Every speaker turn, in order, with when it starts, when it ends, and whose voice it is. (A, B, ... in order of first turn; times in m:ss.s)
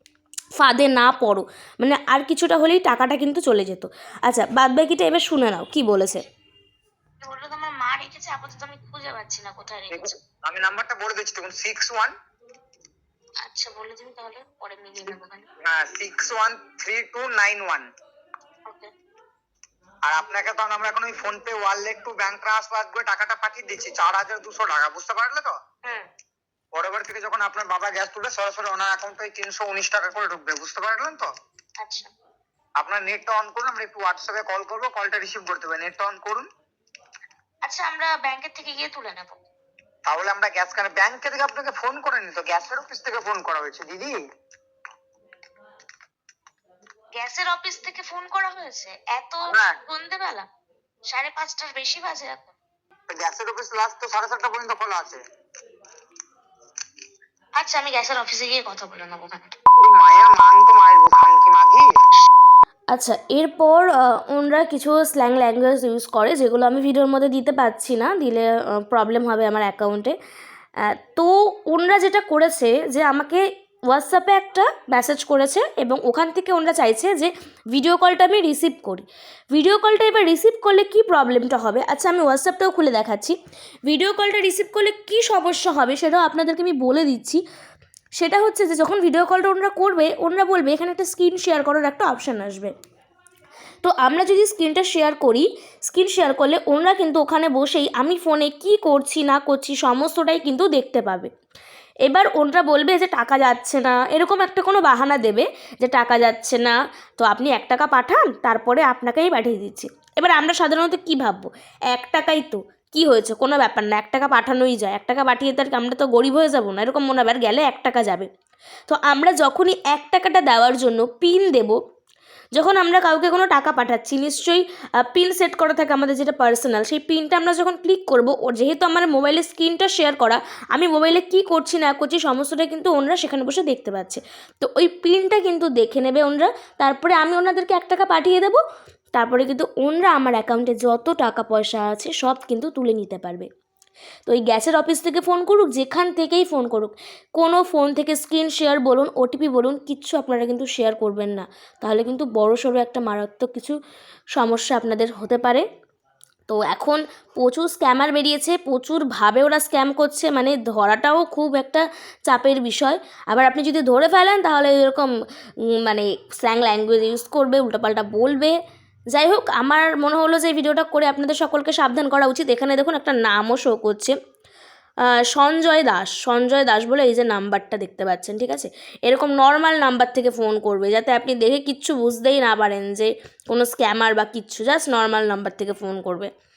0:00.6-0:06.2 A
0:07.2-0:10.2 B
0:09.9-0:12.1 C
0:13.4-0:15.5 B
0:15.6-0:17.9 C
0:20.1-0:25.5 C
0:26.8-0:31.3 C
0:31.8-0:32.1 B
0:32.8-0:36.5 C
0:37.6-0:39.4 B
0:40.1-0:44.2 C
0:47.2-0:50.5 B
0:49.5-0:49.8 C
0:51.1-0:52.6 B
0:53.1-0:55.2 C
0:57.6-0:59.5 B
0:59.8-1:01.9 C
1:02.9-1:10.2 A
1:10.8-1:27.4 A
1:28.2-1:32.7 A
1:33.8-1:41.3 A
1:42.0-1:58.3 A
1:58.9-2:01.8 A
2:02.6-2:18.6 A
2:19.2-2:23.5 A
2:24.3-2:33.8 A
2:34.4-2:35.7 A
2:36.5-2:45.1 A
2:45.8-2:48.6 A
2:49.1-2:54.2 A
2:55.1-3:06.3 A